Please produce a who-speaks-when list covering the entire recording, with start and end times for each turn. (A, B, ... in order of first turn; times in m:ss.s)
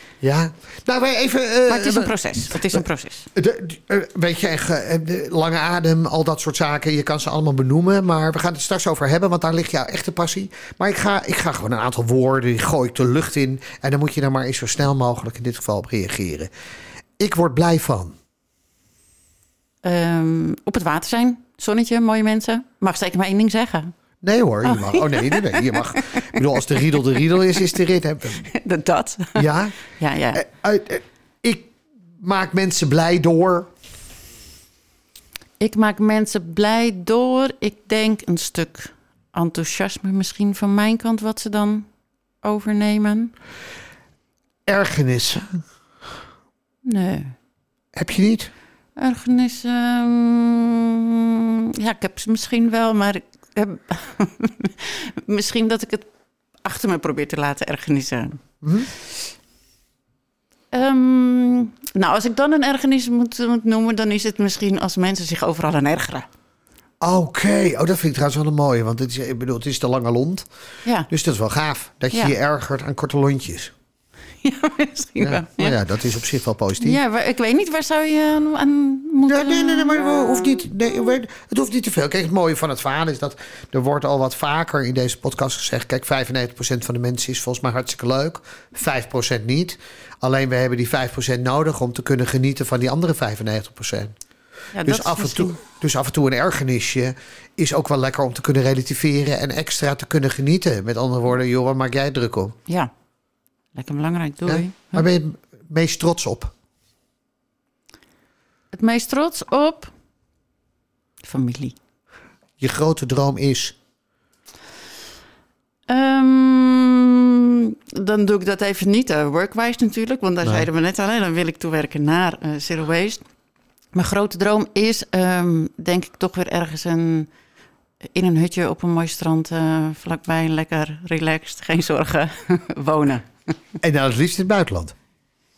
0:00.2-0:02.8 A
0:01.7-0:03.3 B
0:03.4-0:16.5 A
0:17.2-0:18.2 A
0:19.8-0:23.9 B
0:24.2-0:28.5 A
0:24.6-0:26.6 B
0:28.4-0:29.5 B
0:29.4-0:29.7 A
0:30.0-0:30.4 B
0:30.3-0:33.7 A
0:35.6-0:41.9 B
0:42.4-0:43.3 B
0:44.7-0:45.6 A
0:46.8-0:47.4 B
0:47.9-0:48.5 A
0:49.0-0:56.1 B
0:56.6-0:58.4 B
0:58.6-0:58.9 A
1:00.7-1:06.3 B
1:07.0-1:10.5 A
1:11.1-1:13.7 A
1:14.4-1:15.8 B
1:15.2-1:17.0 A
1:16.8-1:20.7 B
1:19.3-1:34.2 A
1:34.7-1:35.6 B
1:34.8-1:42.6 A
1:43.7-1:45.1 B
1:44.4-1:46.5 A
1:48.7-1:49.9 B
1:51.2-1:51.8 B
1:52.6-1:53.8 A
1:55.9-2:03.2 B
2:00.4-2:00.7 A
2:03.9-2:07.3 B
2:08.0-2:13.5 B
2:13.8-2:14.9 A